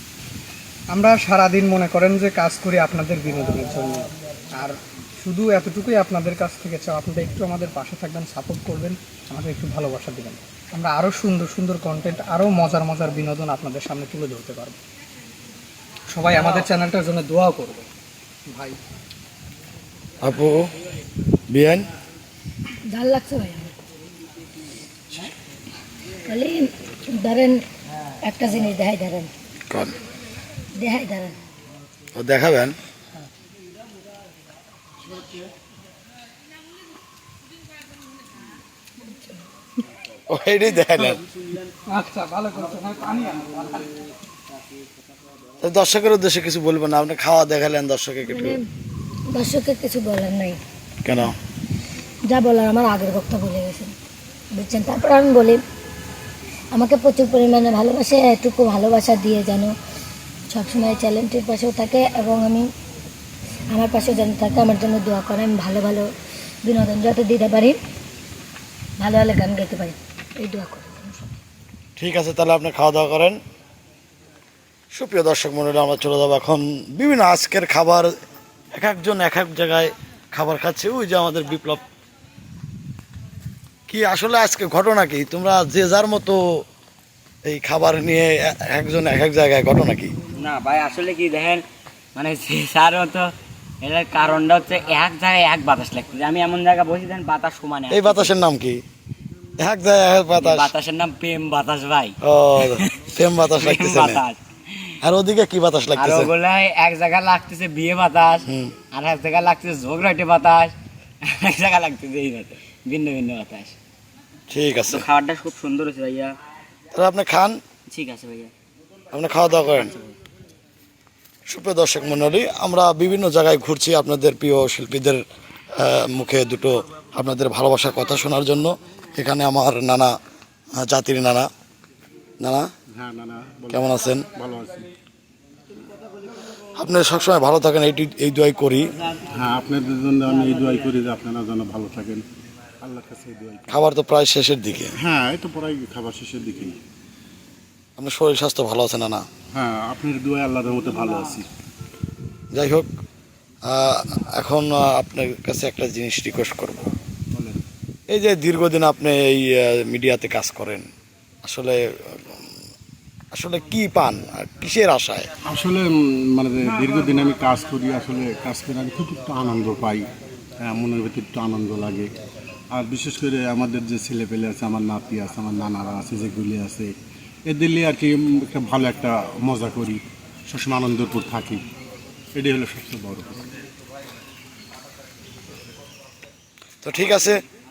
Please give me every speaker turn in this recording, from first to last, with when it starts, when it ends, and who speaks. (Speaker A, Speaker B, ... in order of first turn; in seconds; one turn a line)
Speaker A: 0.9-14.8
Speaker A: 16.1-17.8
Speaker A: 18.5-18.8
Speaker B: 20.2-20.5
Speaker B: 21.5-21.9
Speaker C: 22.9-23.8
Speaker C: 26.3-27.6
Speaker C: 28.2-29.3
Speaker C: 30.8-31.4
Speaker B: 32.1-32.8
Speaker B: 40.3-41.2
Speaker A: 41.9-43.8
Speaker B: 45.6-48.6
Speaker C: 48.2-48.6
Speaker C: 49.3-50.6
Speaker B: 51.0-51.3
Speaker C: 52.3-53.9
Speaker C: 54.5-55.6
Speaker C: 56.7-59.8
Speaker C: 60.5-62.7
Speaker C: 63.7-66.1
Speaker C: 66.7-67.8
Speaker C: 69.0-71.3
Speaker B: 72.0-73.4
Speaker B: 74.9-78.1
Speaker B: 78.8-81.8
Speaker B: 83.9-86.4
Speaker B: 87.5-90.1
Speaker D: 90.4-91.7
Speaker D: 92.2-93.3
Speaker D: 93.8-98.3
Speaker B: 97.9-98.8
Speaker B: 99.6-100.7
Speaker D: 100.4-102.9
Speaker B: 102.2-104.2
Speaker D: 103.5-104.4
Speaker B: 105.0-106.3
Speaker D: 106.0-113.8
Speaker B: 108.5-108.8
Speaker B: 114.5-115.1
Speaker D: 114.9-116.3
Speaker B: 117.0-117.6
Speaker D: 117.9-118.5
Speaker B: 119.1-119.9
Speaker B: 121.5-125.2
Speaker B: 125.8-130.1
Speaker B: 130.8-131.5
Speaker B: 132.4-132.7
Speaker E: 132.9-134.9
Speaker B: 133.7-134.3
Speaker B: 136.8-138.8
Speaker E: 139.3-142.2
Speaker E: 142.8-143.7
Speaker B: 143.7-144.9
Speaker E: 145.0-146.8
Speaker B: 148.0-149.2
Speaker E: 149.5-151.5
Speaker B: 152.5-152.9
Speaker B: 153.7-156.9
Speaker E: 157.3-157.6
Speaker B: 158.1-160.9
Speaker B: 161.4-162.5
Speaker B: 163.3-165.3
Speaker E: 165.5-170.1
Speaker E: 170.6-172.1
Speaker E: 172.7-176.9
Speaker E: 177.5-181.6
Speaker E: 182.3-183.4
Speaker B: 186.8-187.4